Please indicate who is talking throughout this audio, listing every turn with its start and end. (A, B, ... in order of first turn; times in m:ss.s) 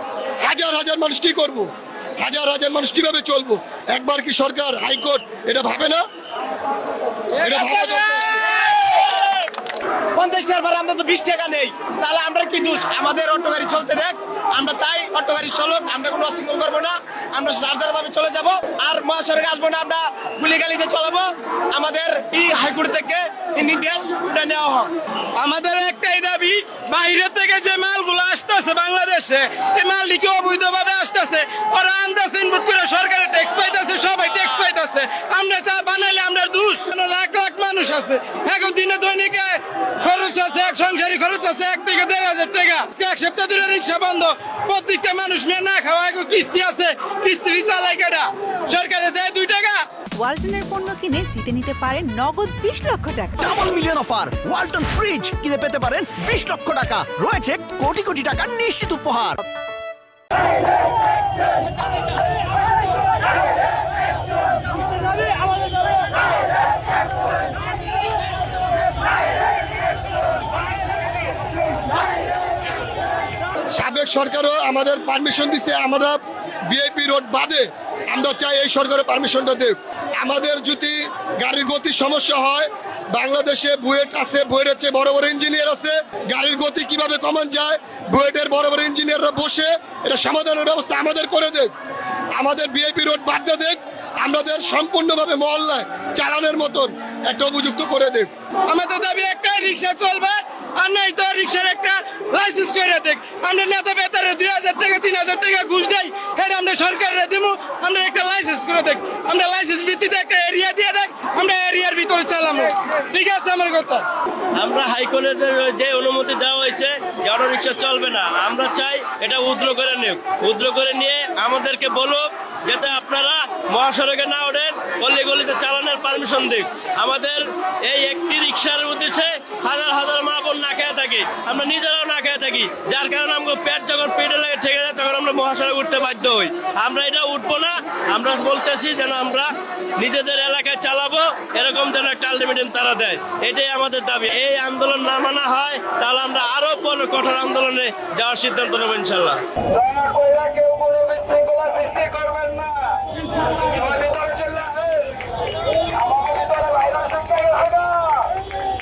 0:00.4-0:01.7 A
0:02.2-0:06.0 A
0:07.4-0:08.4 A
0:10.2-0:24.9 B
0:25.4-0:49.9 C
0:50.2-0:53.5 D
0:53.4-0:59.4 E
1:13.7-1:31.7 A
1:32.4-1:38.3 A
1:38.7-1:54.0 C
1:54.6-2:29.4 F
2:29.7-2:35.2 C
2:36.0-2:38.3 C